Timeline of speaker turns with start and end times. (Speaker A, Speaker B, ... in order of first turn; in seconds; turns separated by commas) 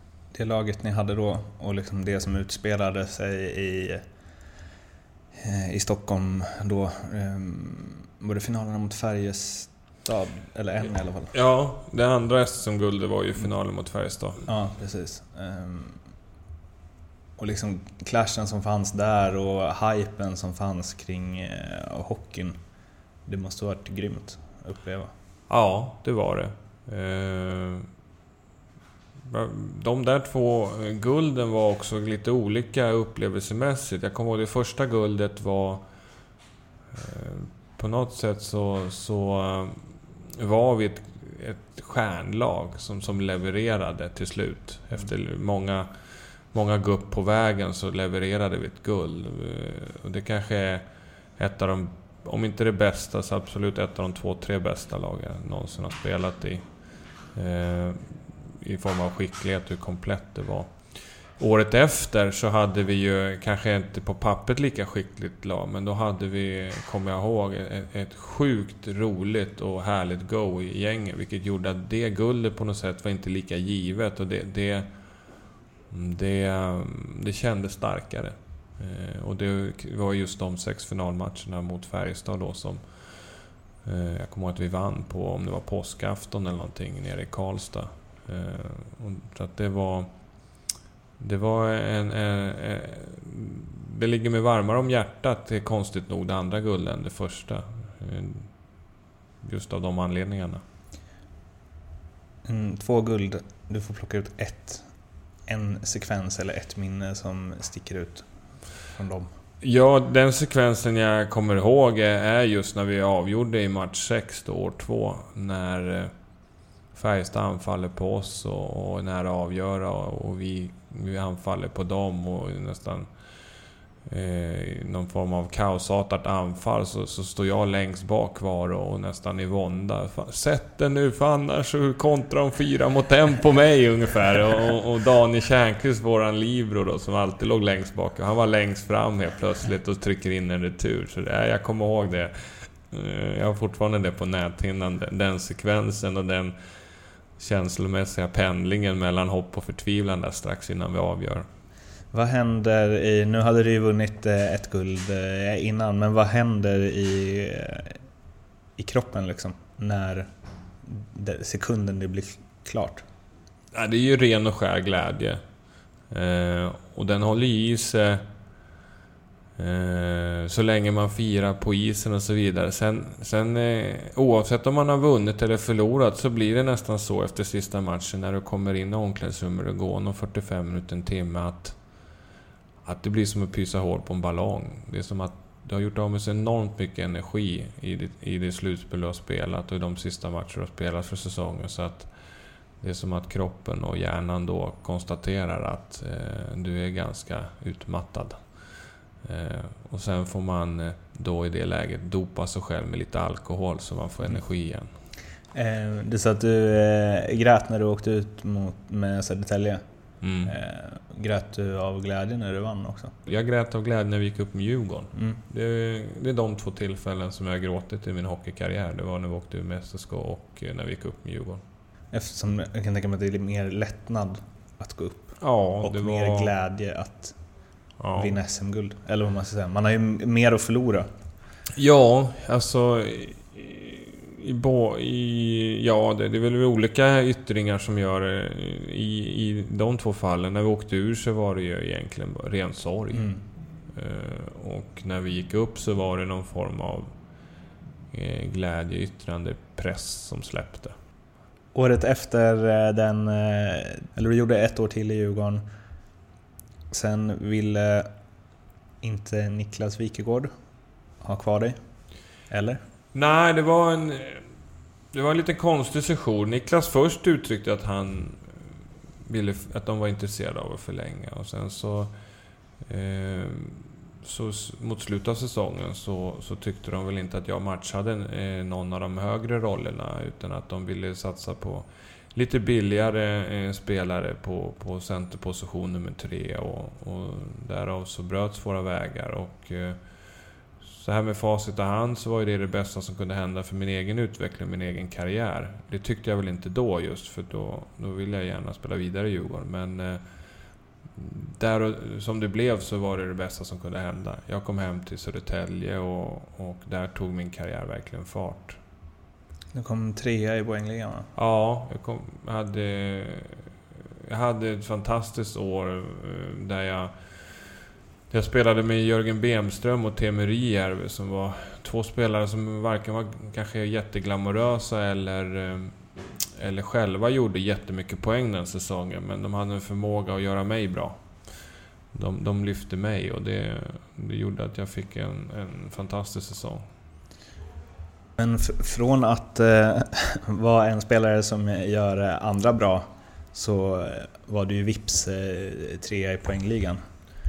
Speaker A: 0.3-4.0, Speaker A: 5.4-11.3, Speaker B: 11.3-14.4, Speaker A: 14.4-16.0, Speaker A: 17.4-22.6, Speaker A: 23.2-25.1, Speaker B: 25.5-27.9, Speaker B: 29.2-35.8, Speaker B: 36.9-45.9, Speaker B: 46.5-50.8, Speaker B: 51.4-74.9, Speaker B: 75.9-90.1, Speaker B: 91.2-98.5, Speaker B: 99.4-100.6, Speaker A: 102.4-104.8, Speaker A: 105.5-108.3, Speaker A: 108.9-109.3, Speaker B: 109.6-116.1, Speaker B: 116.9-123.1, Speaker B: 124.0-146.5, Speaker B: 147.4-151.5, Speaker A: 152.1-158.0, Speaker A: 158.8-160.3, Speaker A: 160.8-163.0, Speaker B: 163.7-165.4, Speaker B: 166.1-168.2, Speaker B: 169.6-181.8, Speaker B: 182.8-192.1, Speaker B: 192.8-198.4, Speaker B: 199.2-204.9, Speaker A: 205.5-209.8, Speaker B: 210.2-210.5, Speaker A: 210.4-213.1, Speaker B: 213.2-221.6, Speaker A: 215.1-215.4, Speaker A: 222.1-227.3, Speaker B: 225.4-226.5, Speaker B: 228.0-228.4, Speaker A: 228.1-231.1, Speaker B: 231.8-243.3, Speaker A: 243.1-243.4, Speaker B: 243.9-247.1, Speaker B: 248.1-250.9, Speaker A: 251.7-255.6, Speaker A: 256.9-258.1, Speaker A: 259.0-260.5, Speaker A: 261.2-261.8, Speaker A: 262.5-262.8, Speaker B: 263.1-264.4, Speaker B: 265.1-268.4, Speaker B: 269.2-272.1, Speaker B: 272.9-290.0, Speaker B: 290.8-300.2, Speaker B: 301.1-308.8, Speaker A: 309.7-311.3, Speaker B: 311.3-313.6, Speaker B: 314.2-317.7, Speaker B: 318.3-325.9, Speaker B: 326.6-331.5, Speaker B: 332.1-336.8, Speaker A: 338.4-347.0